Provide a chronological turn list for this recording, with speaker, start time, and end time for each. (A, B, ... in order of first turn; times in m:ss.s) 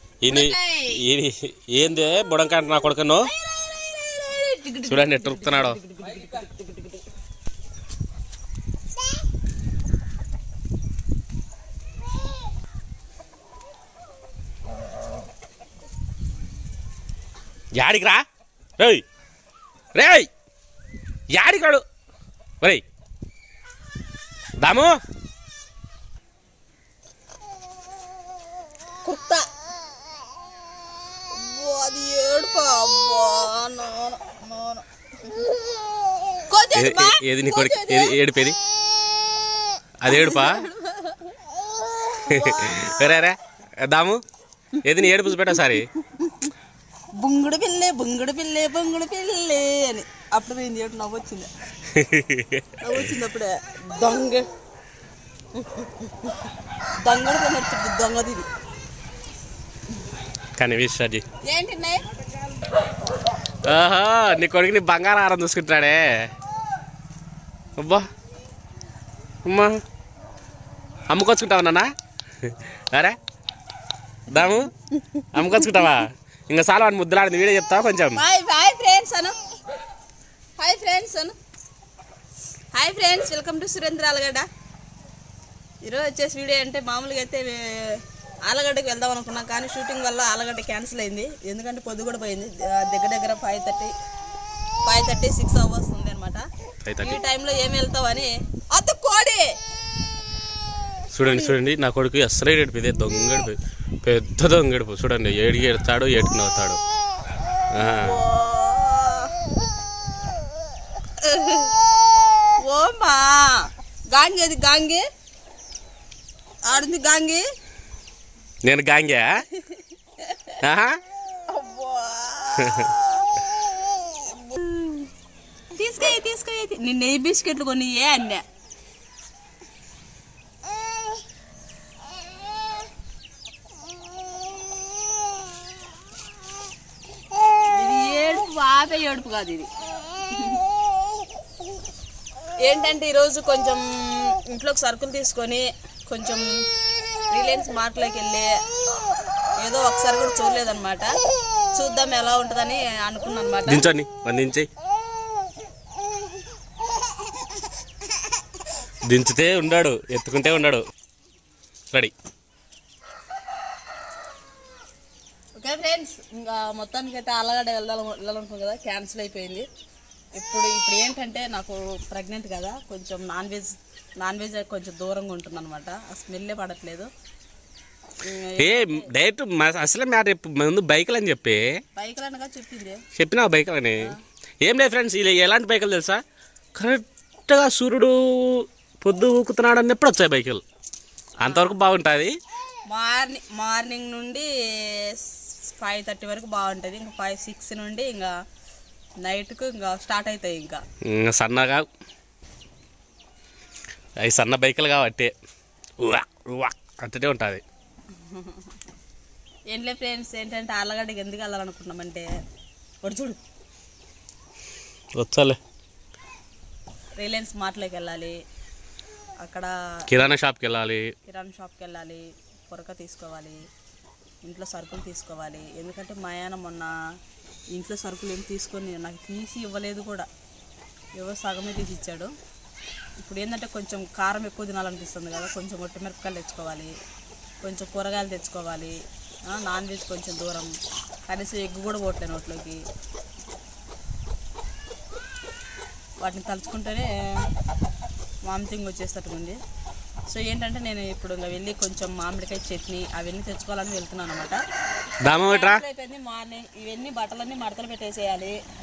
0:00.2-0:03.3 A
0:00.3-0:01.0 B
0:03.3-0:07.0 B
0:04.9-0:05.8 A
0:17.8-0:18.2 A
0:18.8-0:19.0 A
0:19.9-0:20.3 A
0:21.3-0:21.8 A
0:24.6-0:25.0 A
0:29.0-0:29.5 B
0:31.3-0:34.8 B
0:36.5-0:38.2 B
0:36.7-0:38.6 A
0:40.0-0:40.6 A
0:40.1-0:41.3 B
0:42.0-0:43.2 B
0:42.3-0:44.2 A
0:44.8-0:45.9 A
0:44.8-0:46.5 B
0:47.2-0:51.5 B
0:51.9-0:53.0 A
0:52.8-0:54.5 B
0:55.6-0:56.3 B
0:57.0-0:58.5 B
1:00.6-1:01.2 A
1:01.4-1:02.2 B
1:03.6-1:06.3 A
1:07.8-1:08.0 A
1:09.5-1:09.8 A
1:11.1-1:11.9 A
1:12.4-1:13.2 A
1:14.3-1:14.7 A
1:14.4-1:15.9 B
1:15.3-1:18.2 A
1:18.2-1:19.4 B
1:20.6-1:21.4 B
1:22.7-1:24.5 B
1:25.8-1:33.9 B
1:34.8-1:36.4 B
1:36.8-1:37.2 A
1:37.0-1:39.6 B
1:41.1-1:46.8 A
1:47.7-1:48.2 A
1:47.8-1:49.3 B
1:51.2-1:51.8 B
1:52.6-1:55.0 B
1:56.7-1:57.4 B
1:58.6-1:59.4 A
1:59.6-2:00.6 B
2:00.6-2:01.0 A
2:01.5-2:03.3 B
2:02.6-2:02.9 A
2:04.2-2:05.1 B
2:05.7-2:08.4 B
2:17.7-2:19.7 B
2:20.3-2:20.6 B
2:22.6-2:26.5 B
2:27.3-2:28.5 B
2:29.6-2:31.1 B
2:31.7-2:33.9 B
2:33.7-2:34.7 A
2:39.1-2:40.8 A
2:45.6-2:49.6 B
2:50.4-2:57.1 B
2:58.2-2:59.1 B
2:58.6-3:01.7 A
3:02.0-3:03.0 B
3:03.2-3:06.2 A
3:06.8-3:10.6 A
3:11.4-3:11.8 B
3:11.4-3:12.3 A
3:12.9-3:18.3 B
3:19.2-3:20.8 B
3:21.1-3:21.9 A
3:24.2-3:25.3 A
3:26.0-3:27.6 A
3:28.2-3:28.6 B
3:29.7-3:32.3 B
3:33.0-3:33.4 B
3:35.2-3:35.6 A
3:37.2-3:38.4 B
3:39.4-3:40.2 B
3:40.1-3:41.1 A
3:41.3-3:43.6 B
3:44.4-3:46.9 B
3:47.7-3:50.3 B
3:51.2-3:52.3 B
3:53.2-3:56.9 B
3:57.6-3:59.0 B
3:59.5-4:00.7 B
4:01.3-4:02.8 B
4:06.2-4:07.5 B
4:08.5-4:09.6 B
4:10.3-4:14.6 B
4:15.2-4:15.8 A
4:15.3-4:18.6 B